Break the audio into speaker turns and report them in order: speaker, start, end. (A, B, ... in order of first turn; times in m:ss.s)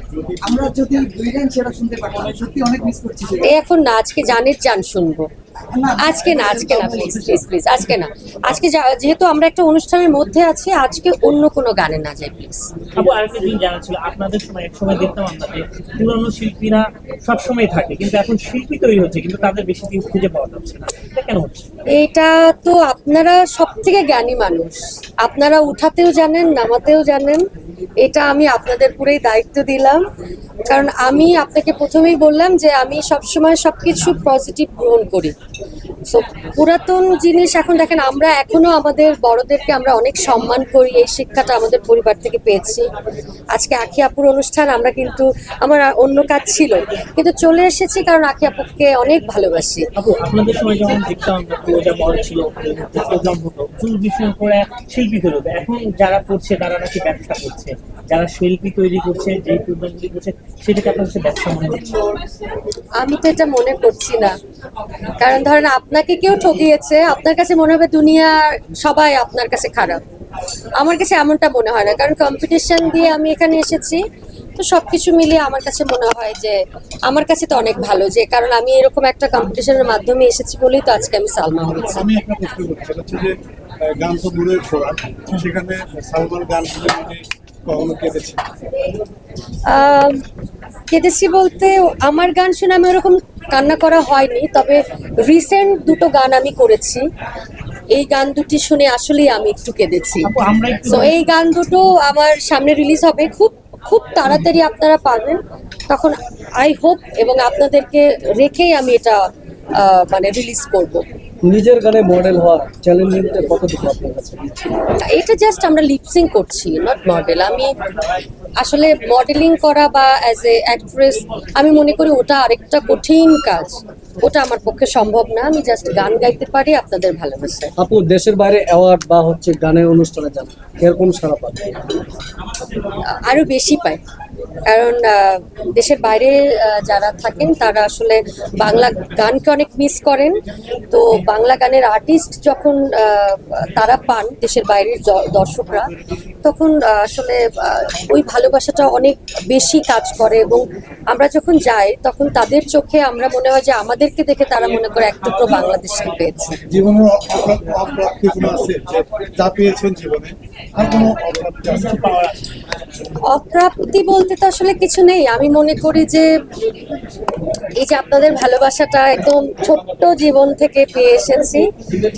0:00.4-0:03.5 A
0:03.4-0:05.3 B
0:05.7-0:07.4 A
0:06.0-0:12.7 B
0:13.0-0:21.7 C
0:21.9-0:27.4 B
0:28.0-0:30.0 B
0:30.7-0:35.3 B
0:36.1-0:42.8 B
0:43.5-0:49.8 B
0:50.0-1:02.2 C
1:03.0-1:04.3 B
1:05.2-1:10.0 B
1:10.8-1:14.0 B
1:14.6-1:22.0 B
1:21.9-1:28.4 D
1:29.7-1:30.2 B
1:30.9-1:37.0 B
1:37.9-1:40.3 B
1:40.2-1:41.1 C
1:40.9-1:45.4 B
1:45.9-1:49.2 B
1:49.8-1:51.0 B
1:51.4-1:54.7 E
1:55.1-1:57.7 B
1:58.6-2:07.7 B
2:07.8-2:11.7 E
2:13.3-2:14.0 B
2:14.7-2:20.3 B
2:20.9-2:25.9 B
2:26.4-2:36.5 B
2:36.7-2:42.4 D
2:43.3-2:46.3 B
2:47.8-2:51.6 B